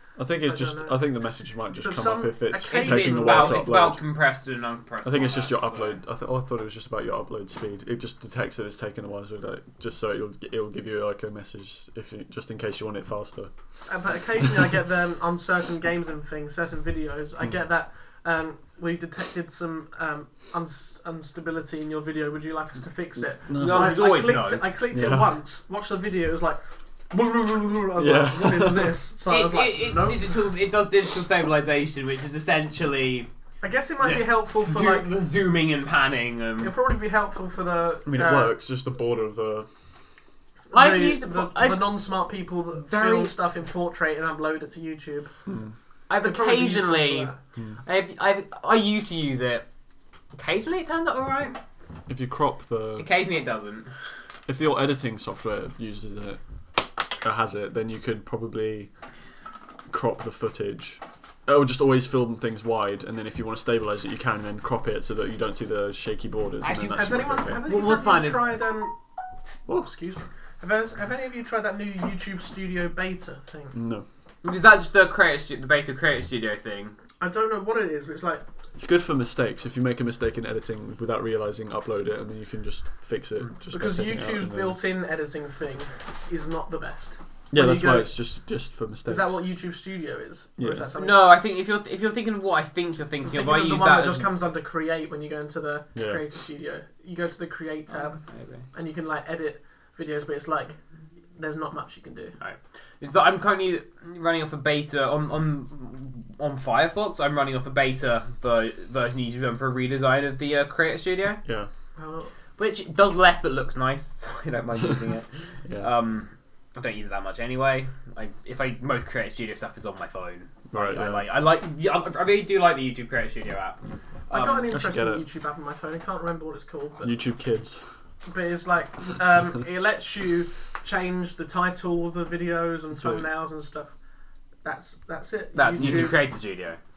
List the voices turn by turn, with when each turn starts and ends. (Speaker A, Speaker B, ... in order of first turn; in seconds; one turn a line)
Speaker A: 0.2-4.0
Speaker B: 0.3-1.0
Speaker B: 1.8-3.7
Speaker C: 2.7-6.0
Speaker A: 5.0-13.5
Speaker B: 13.9-26.6
Speaker A: 14.4-14.8
Speaker A: 23.5-24.0
Speaker C: 23.6-24.6
Speaker A: 24.9-25.3
Speaker B: 27.1-30.3
Speaker A: 28.0-29.0
Speaker C: 29.3-33.3
Speaker B: 33.6-35.1
Speaker C: 34.0-36.7
Speaker B: 36.6-38.6
Speaker A: 38.1-39.7
Speaker C: 40.7-42.0
Speaker B: 40.7-45.3
Speaker C: 42.8-43.4
Speaker A: 45.5-45.8
Speaker C: 46.1-47.3
Speaker B: 46.2-47.4
Speaker A: 47.6-47.8
Speaker C: 47.8-49.7
Speaker C: 50.3-51.6
Speaker A: 52.1-53.1
Speaker C: 53.0-53.9
Speaker A: 54.5-58.9
Speaker A: 59.9-67.6
Speaker C: 66.6-68.5
Speaker B: 66.9-68.9
Speaker B: 69.7-73.8
Speaker A: 73.7-74.1
Speaker C: 74.4-77.0
Speaker B: 77.2-78.4
Speaker A: 78.8-84.8
Speaker B: 83.7-88.2
Speaker A: 87.5-89.4
Speaker B: 89.1-91.3
Speaker A: 90.6-90.9
Speaker C: 91.0-94.3
Speaker B: 93.2-98.2
Speaker A: 96.0-96.2
Speaker C: 98.1-98.7
Speaker B: 98.7-100.8
Speaker B: 101.3-102.3
Speaker C: 102.4-111.4
Speaker A: 111.5-111.7
Speaker B: 112.0-112.3
Speaker C: 112.6-124.7
Speaker A: 115.7-115.9
Speaker A: 120.7-121.3
Speaker B: 124.3-127.2
Speaker A: 124.7-125.2
Speaker A: 127.0-127.8
Speaker B: 128.3-133.9
Speaker A: 132.9-133.3
Speaker B: 134.6-136.2
Speaker C: 135.5-136.8
Speaker A: 135.8-136.2